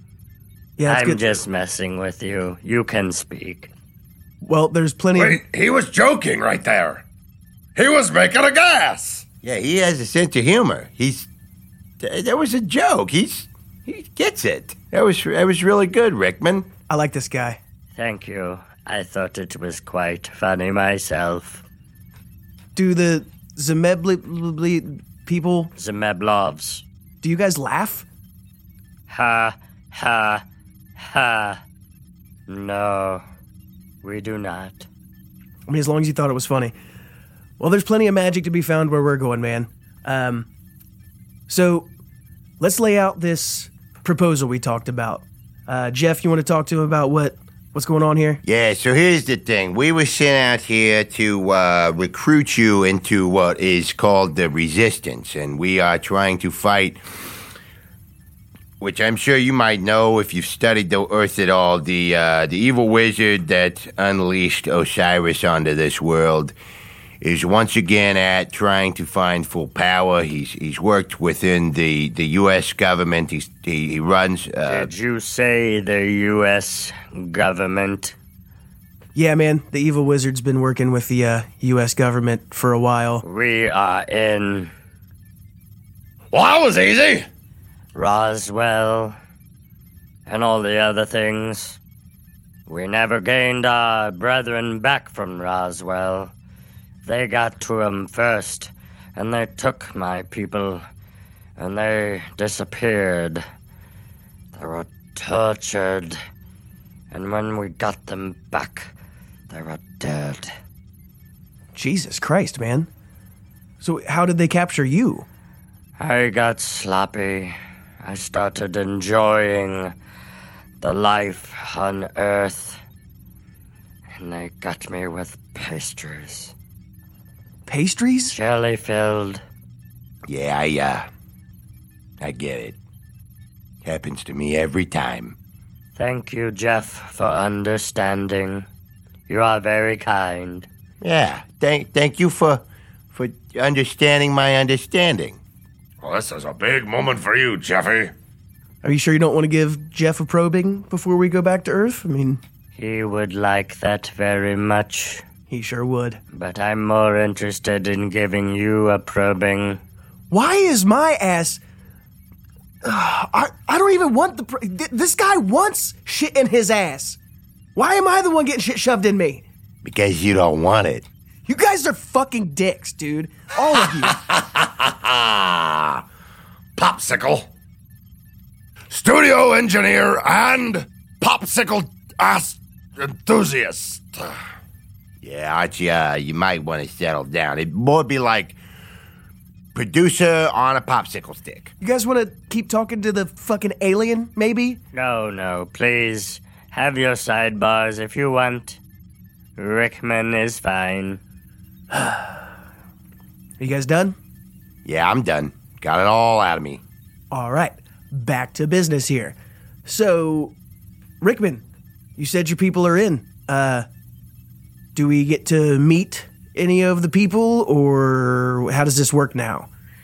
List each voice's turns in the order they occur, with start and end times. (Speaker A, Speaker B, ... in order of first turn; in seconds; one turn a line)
Speaker A: 0.8-1.2
Speaker B: 0.9-3.7
Speaker A: 4.4-5.4
Speaker C: 5.2-7.0
Speaker C: 7.8-9.2
Speaker D: 9.4-11.3
Speaker D: 12.0-16.7
Speaker A: 16.9-17.6
Speaker B: 17.9-21.6
Speaker A: 22.8-25.7
Speaker B: 25.8-26.8
Speaker A: 27.2-28.1
Speaker B: 29.1-30.4
Speaker B: 31.0-31.6
Speaker B: 32.5-33.2
Speaker B: 34.0-34.9
Speaker A: 35.7-36.7
Speaker A: 37.6-40.5
Speaker A: 41.5-41.9
Speaker A: 42.6-48.4
Speaker D: 48.4-57.0
Speaker D: 58.8-66.5
Speaker D: 67.2-74.9
Speaker B: 74.7-78.2
Speaker A: 79.2-83.2
Speaker B: 83.2-84.7
Speaker C: 86.3-87.3
Speaker B: 88.0-89.2
Speaker B: 90.3-91.8
Speaker B: 92.7-96.3
Speaker B: 97.0-100.8
Speaker B: 101.6-103.4
Speaker B: 104.6-106.2
Speaker B: 107.1-108.9
Speaker B: 109.5-110.5
Speaker A: 111.8-112.9
Speaker A: 113.8-115.3
Speaker B: 116.0-119.9
Speaker B: 120.8-122.8
Speaker B: 124.2-126.5
Speaker A: 127.7-128.4
Speaker B: 128.3-129.4
Speaker D: 130.3-131.1
Speaker D: 132.2-132.8
Speaker D: 133.8-135.4
Speaker B: 136.0-138.7
Speaker B: 139.3-140.7
Speaker D: 141.0-145.4
Speaker C: 146.0-148.1
Speaker A: 148.8-152.4
Speaker B: 152.8-155.2
Speaker A: 155.5-156.2
Speaker B: 156.3-159.8
Speaker A: 160.3-161.6
Speaker A: 162.8-167.2
Speaker A: 167.8-169.4
Speaker D: 169.8-171.1
Speaker A: 171.5-174.2
Speaker C: 174.1-176.0
Speaker C: 176.8-177.5
Speaker C: 178.9-184.4
Speaker D: 185.2-188.6
Speaker D: 189.8-191.7
Speaker A: 191.8-194.8
Speaker B: 194.9-198.8
Speaker B: 199.6-201.2
Speaker A: 201.9-202.4
Speaker A: 203.6-204.2
Speaker D: 204.8-206.8
Speaker A: 207.3-209.3
Speaker A: 209.9-210.5
Speaker A: 211.2-211.6
Speaker A: 212.2-213.9
Speaker A: 214.9-219.7